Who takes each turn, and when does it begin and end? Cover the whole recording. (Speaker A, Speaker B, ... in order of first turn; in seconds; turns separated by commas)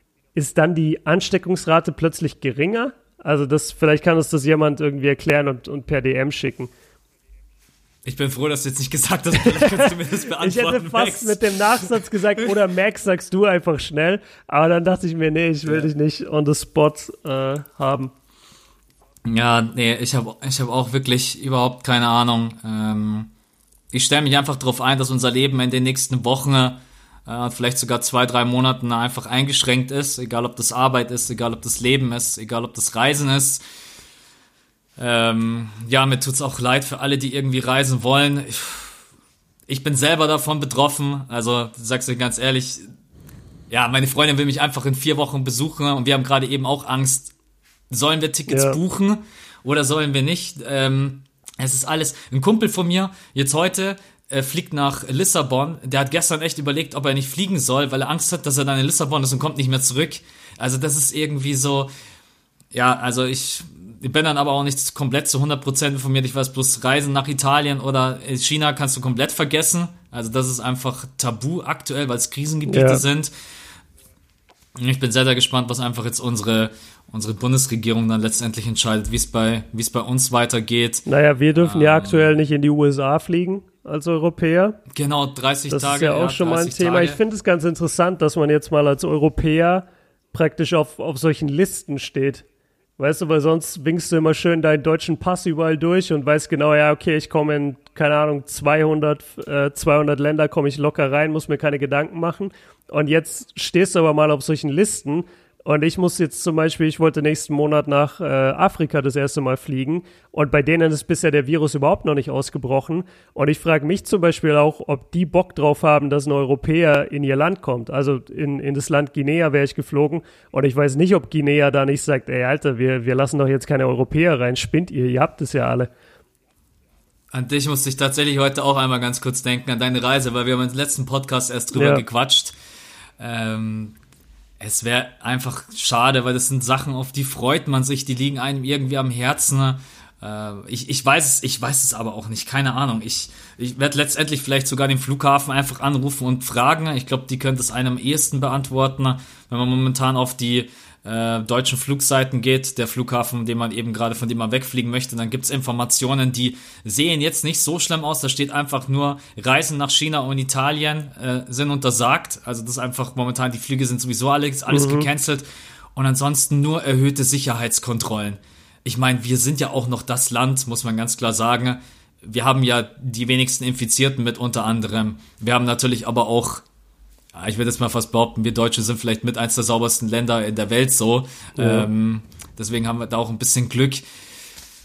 Speaker A: 0.3-6.7, Speaker B: 8.0-11.9, Speaker A: 9.4-18.1, Speaker B: 19.2-23.3, Speaker B: 23.9-33.6, Speaker B: 35.0-39.0, Speaker B: 39.7-42.9, Speaker B: 43.7-47.3, Speaker B: 47.9-61.9, Speaker A: 48.5-48.8, Speaker B: 62.7-73.3, Speaker A: 72.7-73.0, Speaker B: 74.8-82.3, Speaker A: 81.0-84.8, Speaker B: 84.9-87.2, Speaker A: 85.7-92.4, Speaker A: 93.0-125.9, Speaker B: 127.3-132.6, Speaker A: 131.7-132.0, Speaker B: 133.2-133.9, Speaker B: 134.6-176.6, Speaker A: 164.7-165.1, Speaker B: 177.3-184.0, Speaker A: 181.6-181.9